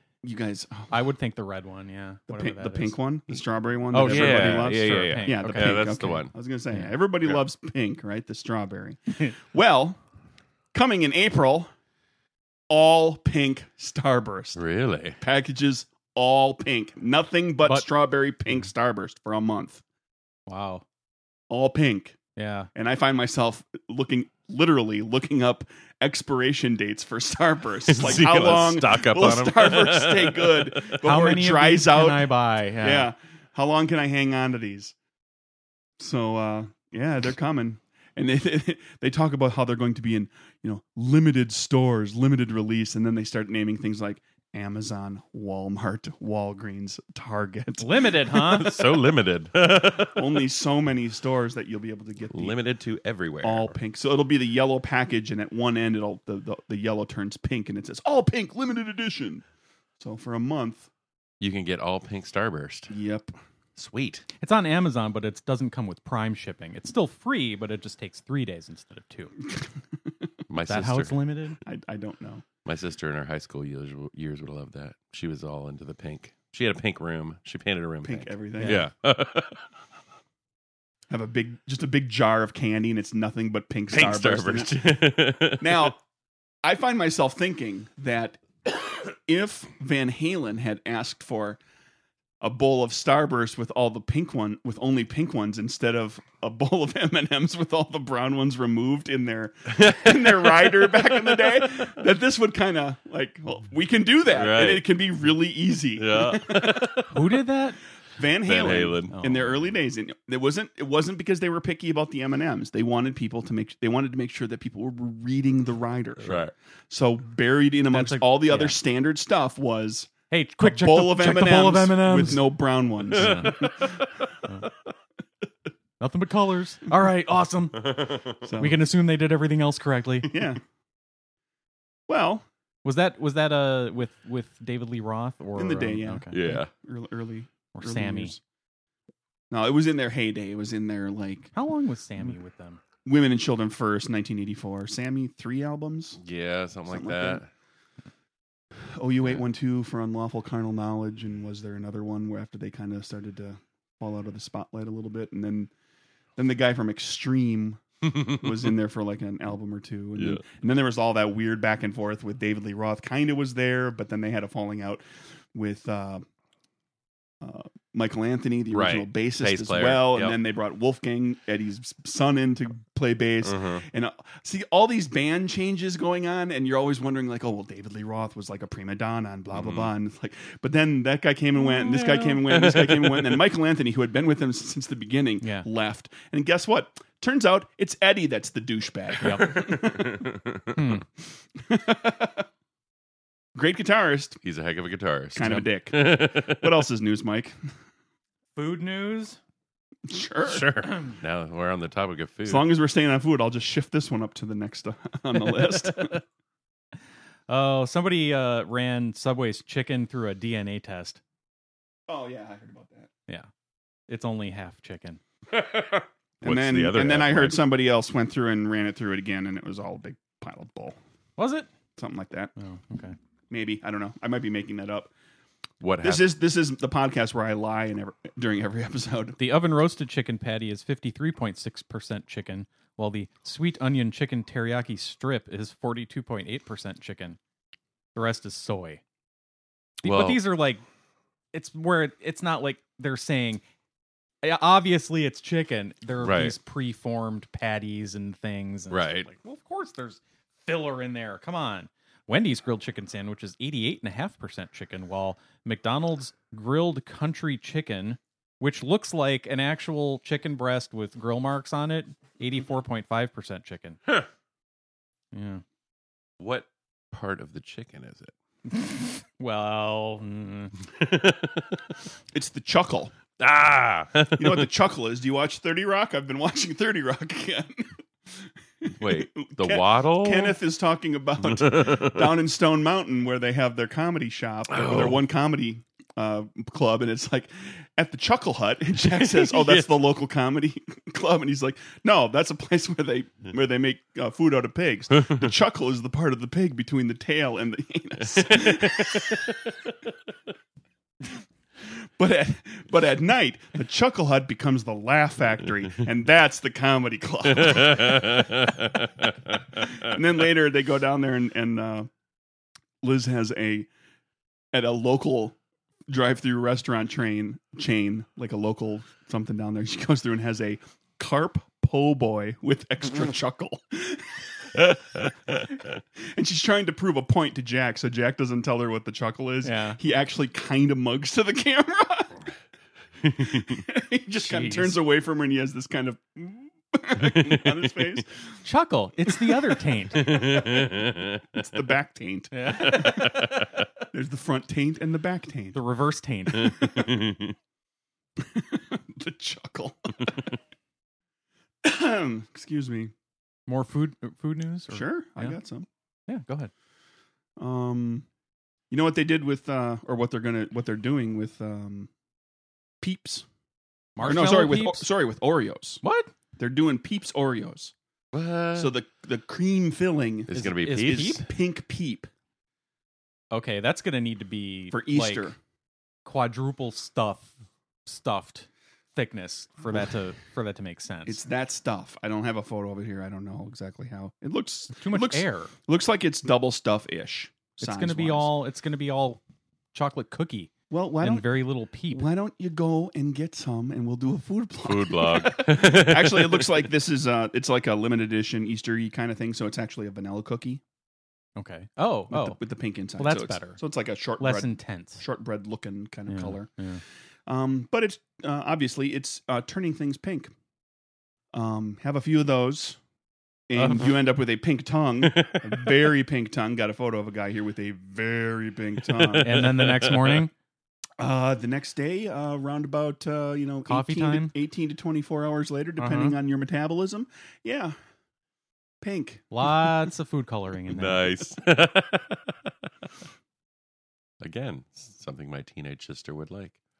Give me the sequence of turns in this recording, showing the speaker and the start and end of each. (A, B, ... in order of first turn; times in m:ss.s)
0:00.2-0:01.0 A
0:00.9-0:03.0 B
0:02.3-0:10.0 A
0:03.9-0:06.2 B
0:03.9-0:06.3 C
0:10.7-0:11.7 A
0:12.7-0:14.6 A
0:14.5-0:15.2 C
0:15.2-0:19.8 A
0:20.5-0:20.8 B
0:21.5-0:22.2 A
0:22.4-0:22.7 B
0:22.7-0:34.9 A
0:27.8-0:31.0 C
0:31.0-0:33.1 B
0:36.0-0:48.0 A
0:47.8-0:49.0 B
0:48.4-0:50.4 C
0:49.8-0:52.6 A
0:52.3-0:53.7 C
0:53.4-0:59.4 A
1:00.0-1:00.9 A
1:01.4-1:02.9 C
1:02.9-1:03.3 A
1:03.8-1:04.2 C
1:04.4-1:09.3 B
1:10.5-1:11.2 C
1:10.7-1:11.6 B
1:11.6-1:12.4 A
1:12.6-1:19.6 C
1:18.0-1:18.8 A
1:18.6-1:18.8 B
1:21.1-1:25.0 A
1:23.9-1:25.9 C
1:25.5-1:26.0 A
1:26.6-1:31.6 A
1:32.4-1:47.0 A
1:39.7-1:41.9 C
1:44.3-1:44.8 C
1:46.0-1:47.2 C
1:47.1-1:47.8 B
1:48.2-2:04.1 A
1:48.4-1:49.2 C
1:49.1-1:49.5 B
1:56.2-1:56.5 C
1:57.9-1:58.8 B
2:00.3-2:03.6 B
2:03.1-2:04.1 C
2:06.0-2:10.4 B
2:07.8-2:08.3 C
2:08.4-2:08.8 A
2:10.2-2:10.6 A
2:12.1-2:12.4 A
2:12.8-2:16.4 B
2:15.6-2:18.4 A
2:16.3-2:16.7 C
2:17.7-2:18.3 B
2:19.5-2:21.5 A
2:21.5-2:22.8 B
2:23.0-2:26.2 A
2:26.2-2:27.5 C
2:26.9-2:27.4 A
2:28.9-2:35.7 A
2:36.4-2:46.2 A
2:38.1-2:38.5 C
2:40.2-2:40.4 C
2:47.4-3:10.2 A
2:48.7-2:50.4 C
2:53.4-2:53.8 C
2:59.5-2:59.9 C
3:01.6-3:03.4 C
3:05.4-3:05.7 B
3:09.2-3:09.7 B
3:09.2-3:11.0 C
3:10.7-3:11.0 B
3:11.6-3:12.4 A
3:13.6-3:14.4 A
3:14.4-3:16.8 C
3:15.3-3:17.6 A
3:18.5-3:19.4 B
3:20.1-3:20.7 A
3:20.4-3:22.7 C
3:20.9-3:21.2 B
3:22.4-3:26.2 A
3:25.6-3:26.1 B
3:27.5-3:31.2 B
3:32.1-3:33.1 A
3:34.1-3:35.2 B
3:35.5-3:37.6 C
3:36.4-3:41.0 A
3:41.4-3:41.7 B
3:42.0-3:42.5 A
3:42.6-3:43.2 B
3:43.5-3:45.1 A
3:45.8-3:46.3 C
3:46.0-3:49.4 A
3:49.4-3:57.4 B
3:58.1-3:59.0 B
4:00.0-4:00.8 B
4:00.0-4:00.4 C
4:01.5-4:03.6 B
4:04.4-4:24.0 B
4:06.2-4:06.6 C
4:08.9-4:09.3 C
4:25.3-4:25.6 B
4:26.4-4:28.3 C
4:28.7-4:30.7 B
4:31.0-4:31.8 C
4:32.3-4:33.1 A
4:33.4-4:34.7 C
4:34.4-4:59.6 A
4:39.0-4:40.6 C
4:41.5-4:42.3 C
4:44.7-4:45.2 C
4:49.0-4:50.0 C
4:58.3-4:59.9 C
5:02.2-5:08.6 A
5:07.5-5:09.8 C
5:09.8-5:12.1 A
5:13.0-5:13.9 A
5:14.7-5:15.6 A
5:16.1-5:24.4 A
5:24.8-5:25.6 C
5:26.2-5:32.4 A
5:29.6-5:30.0 B
5:33.4-5:38.6 A
5:34.4-5:35.0 B
5:37.2-5:38.2 C
5:38.6-5:40.3 B
5:40.1-5:41.6 C
5:40.3-5:43.6 A
5:42.5-5:43.4 B
5:42.8-5:43.8 C
5:44.1-5:45.8 A
5:45.7-5:46.8 B
5:46.5-5:47.6 C
5:46.6-5:47.1 A
5:48.4-5:50.5 A
5:51.8-5:53.1 A
5:53.7-5:55.6 B
5:54.9-5:55.9 A
5:56.3-5:56.7 B
5:57.6-5:58.2 A
5:58.9-6:02.1 A
6:03.0-6:03.4 A
6:04.2-6:05.1 B
6:04.2-6:06.0 A
6:06.0-6:06.3 B
6:06.6-6:07.9 A
6:08.3-6:08.9 C
6:08.7-6:10.6 A
6:10.5-6:11.4 C
6:10.5-6:11.5 B
6:11.1-6:12.3 A
6:13.5-6:15.5 B
6:14.9-6:15.6 A
6:16.2-6:17.5 B
6:18.0-6:21.4 B
6:21.2-6:28.5 A
6:25.0-6:25.7 B
6:27.8-6:29.4 B
6:29.9-6:32.3 B
6:30.9-6:31.5 A
6:32.1-6:40.8 A
6:34.8-6:36.8 C
6:41.6-6:42.6 B
6:42.3-6:46.7 A
6:43.2-6:43.8 B
6:44.4-6:45.2 B
6:46.3-6:47.0 B
6:47.5-6:50.5 A
6:51.5-6:53.0 A
6:53.7-6:59.6 A
6:53.8-6:54.2 B
6:55.2-6:56.0 C
6:59.0-7:00.5 C
6:59.4-7:00.5 B
7:01.2-7:07.9 A
7:03.9-7:04.5 B
7:06.0-7:06.4 B
7:09.0-7:09.5 A
7:09.5-7:11.4 B
7:10.9-7:12.7 C
7:14.4-7:16.8 C